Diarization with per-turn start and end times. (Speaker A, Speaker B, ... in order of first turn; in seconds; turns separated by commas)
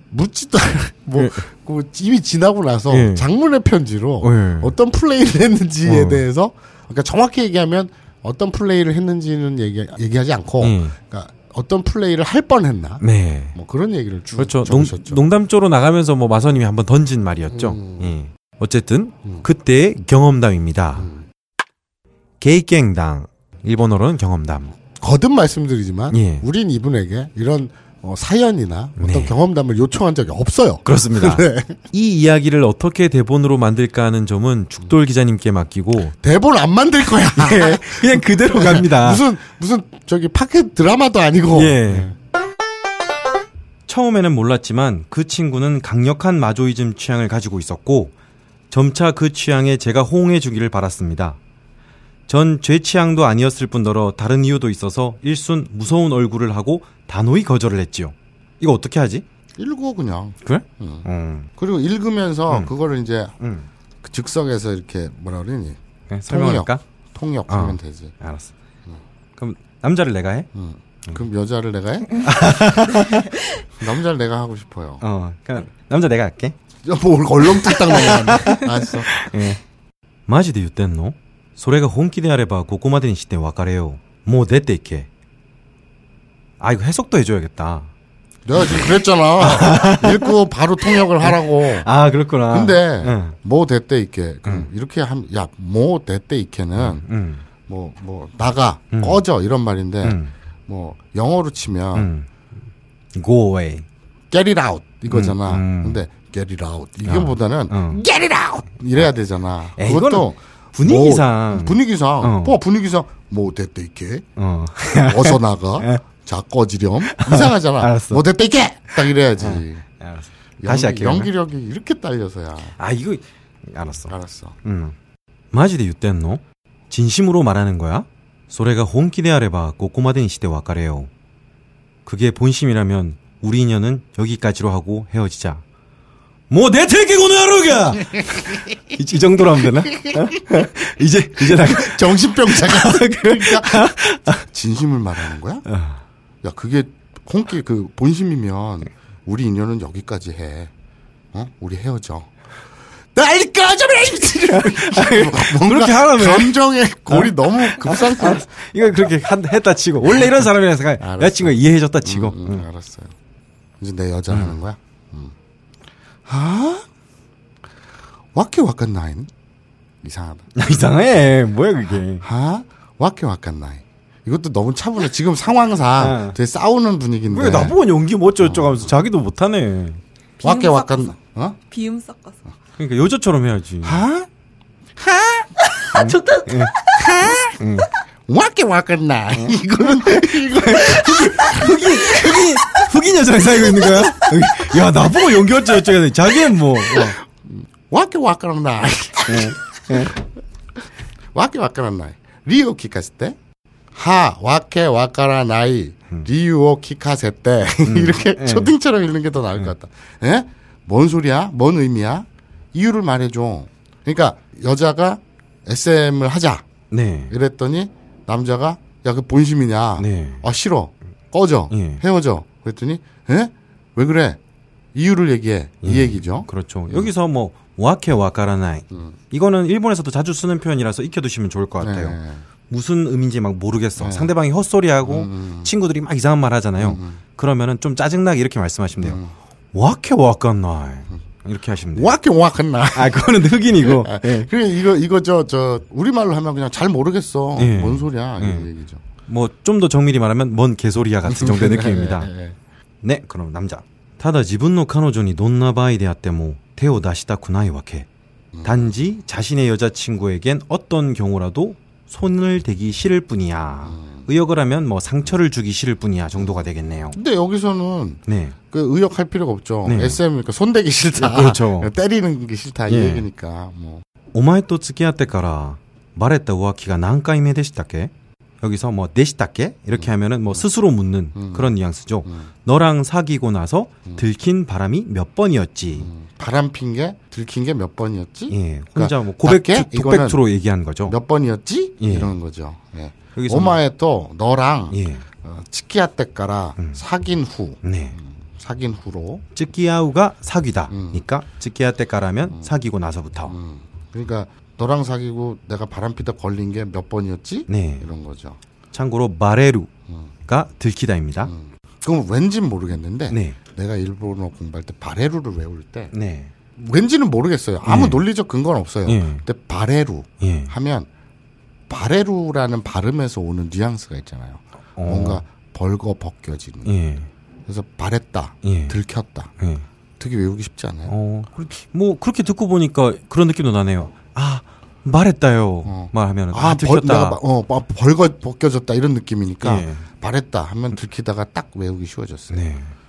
Speaker A: 0.1-13.0, Speaker B: 1.1-1.4, Speaker B: 2.9-3.3, Speaker B: 4.2-4.7, Speaker B: 5.8-6.2, Speaker B: 10.6-10.9, Speaker B: 13.0-13.5, Speaker A: 13.5-15.2, Speaker B: 14.3-21.1, Speaker A: 17.5-18.1, Speaker A: 20.9-21.2, Speaker B: 22.4-24.7, Speaker A: 25.0-31.8, Speaker B: 26.1-26.4, Speaker B: 29.0-29.4, Speaker B: 30.8-36.1, Speaker A: 36.2-42.1, Speaker B: 37.3-39.2, Speaker B: 41.5-42.1, Speaker B: 43.9-48.1, Speaker B: 48.7-51.4, Speaker B: 52.3-59.2, Speaker A: 59.6-61.0, Speaker B: 60.4-61.5, Speaker A: 61.6-63.3, Speaker B: 63.4-63.7, Speaker A: 64.0-68.1, Speaker B: 66.1-66.8, Speaker B: 67.5-68.5, Speaker B: 69.4-70.5, Speaker A: 70.5-72.2, Speaker B: 72.2-73.3, Speaker A: 73.8-75.0, Speaker B: 75.0-76.6, Speaker A: 76.8-79.2, Speaker B: 77.5-79.6, Speaker B: 80.3-85.1, Speaker B: 86.6-87.9, Speaker A: 88.5-91.9, Speaker B: 88.6-88.9, Speaker B: 89.4-90.3, Speaker B: 90.9-93.3, Speaker A: 92.5-97.0, Speaker B: 96.8-97.4, Speaker A: 97.7-102.1, Speaker B: 98.9-99.2, Speaker B: 100.0-100.3, Speaker B: 101.9-102.3, Speaker B: 103.1-103.8, Speaker A: 104.3-114.2, Speaker B: 105.1-106.0, Speaker B: 107.0-108.0, Speaker B: 109.8-112.6, Speaker B: 114.3-116.0, Speaker A: 115.0-119.8, Speaker B: 117.1-118.2, Speaker B: 119.4-121.3, Speaker A: 120.6-122.7, Speaker B: 122.8-124.1, Speaker A: 124.1-124.6, Speaker B: 124.6-125.0, Speaker B: 125.5-131.1, Speaker B: 132.0-135.6, Speaker B: 136.5-144.4, Speaker A: 141.4-143.9, Speaker A: 144.4-145.6, Speaker B: 145.7-146.0, Speaker A: 146.4-150.7, Speaker A: 151.3-152.3, Speaker A: 153.1-158.5, Speaker B: 154.3-156.6, Speaker B: 157.1-162.7, Speaker A: 161.0-163.1, Speaker A: 163.8-165.3, Speaker B: 164.3-164.6, Speaker A: 166.2-166.8, Speaker A: 168.3-169.3, Speaker A: 170.0-170.5, Speaker B: 170.5-172.2, Speaker A: 172.2-177.8, Speaker B: 176.0-176.4, Speaker B: 177.3-180.0, Speaker A: 178.4-178.9, Speaker C: 180.4-181.1, Speaker A: 180.4-181.6, Speaker C: 181.7-182.4, Speaker B: 182.8-184.0, Speaker A: 183.8-184.3, Speaker A: 185.0-185.5, Speaker C: 185.8-187.0, Speaker B: 185.9-186.8, Speaker A: 186.9-187.5, Speaker B: 187.5-187.9, Speaker A: 188.3-192.4, Speaker B: 189.3-197.2, Speaker A: 196.9-200.1, Speaker B: 199.3-200.1, Speaker A: 201.3-203.4, Speaker A: 203.9-216.7, Speaker B: 207.8-208.7, Speaker B: 216.9-217.3, Speaker A: 217.3-224.4, Speaker B: 220.0-220.4, Speaker B: 221.7-222.0, Speaker A: 224.9-227.1, Speaker B: 225.8-232.2, Speaker A: 228.9-229.2, Speaker A: 231.8-232.4, Speaker B: 232.7-239.2, Speaker A: 234.0-234.3, Speaker A: 235.0-235.7, Speaker A: 236.8-237.2, Speaker A: 239.0-239.3, Speaker B: 239.7-242.1, Speaker A: 241.9-249.0, Speaker B: 242.9-244.5, Speaker B: 247.6-248.7, Speaker B: 249.3-252.3, Speaker A: 251.2-252.6, Speaker B: 253.0-258.1, Speaker A: 258.5-258.9, Speaker B: 258.6-267.1, Speaker A: 263.8-264.2, Speaker A: 267.1-274.0, Speaker B: 268.3-268.6, Speaker B: 269.8-270.2, Speaker B: 271.1-271.9, Speaker B: 272.9-273.3, Speaker B: 274.3-286.1, Speaker A: 281.3-281.7, Speaker A: 282.2-282.5, Speaker A: 285.9-290.4, Speaker B: 288.5-291.1, Speaker A: 291.1-299.4, Speaker B: 292.0-292.3, Speaker B: 293.4-293.8, Speaker B: 294.9-295.2, Speaker B: 297.8-298.2, Speaker B: 299.5-303.5, Speaker A: 300.9-301.2, Speaker A: 303.4-308.6, Speaker B: 307.7-308.1, Speaker B: 308.9-309.9, Speaker B: 310.4-311.5, Speaker A: 311.4-316.1, Speaker B: 313.3-313.6, Speaker B: 316.1-316.5, Speaker A: 316.8-321.1, Speaker B: 317.8-318.2, Speaker B: 319.1-319.4, Speaker B: 320.4-320.7, Speaker A: 321.9-326.9, Speaker B: 324.9-325.4, Speaker B: 326.8-327.3, Speaker A: 327.7-329.5, Speaker B: 328.6-329.0, Speaker B: 329.6-329.8, Speaker A: 330.2-331.1, Speaker B: 331.1-337.4, Speaker A: 335.8-342.6, Speaker B: 339.6-340.0, Speaker B: 342.5-342.9